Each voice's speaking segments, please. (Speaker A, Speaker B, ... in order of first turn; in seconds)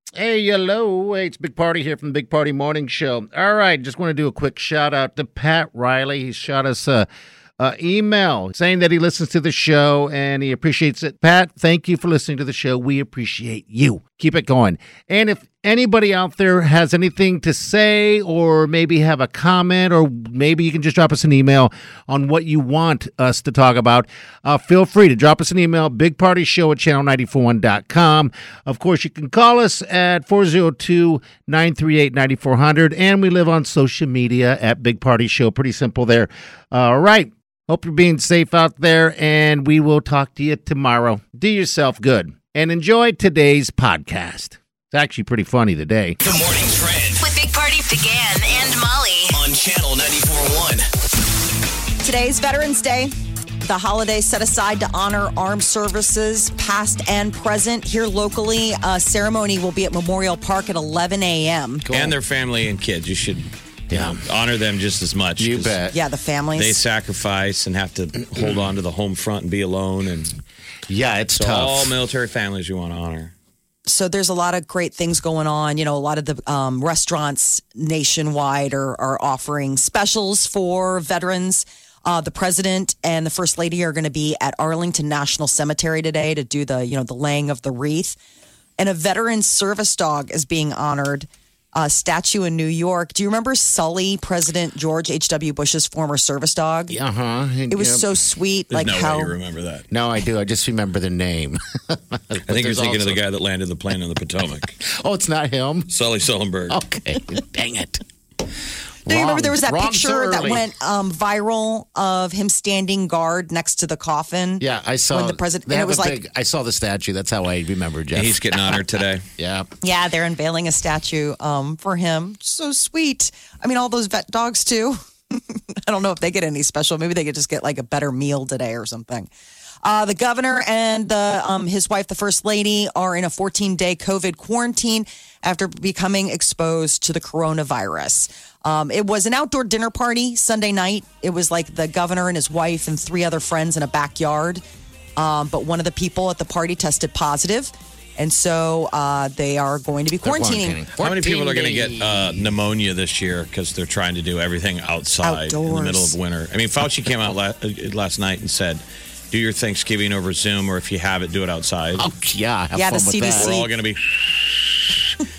Speaker A: 0.1-7.1, 7.6-46.2, 61.9-62.2, 63.9-64.2, 65.4-66.0, 70.9-71.9, 96.9-98.1, 99.9-103.2, 104.8-105.9, 106.7-108.0, 109.0-110.6, 114.6-118.8, 119.4-119.7, 150.2-152.5, 162.0-163.6
Speaker B: 46.2-47.2, 49.3-50.8
Speaker C: 47.2-49.4
Speaker D: 52.0-53.1, 53.6-61.9, 65.9-66.8, 73.8-88.2, 88.8-96.9, 97.7-99.3, 109.1-116.2, 119.8-129.3, 129.8-144.6, 145.2-150.8, 155.2-156.2, 162.7-163.7
Speaker E: 61.9-65.8, 66.5-70.3, 71.3-73.3, 98.7-99.8, 102.5-104.7, 105.9-106.8, 118.1-119.2, 151.0-162.1, 163.3-165.1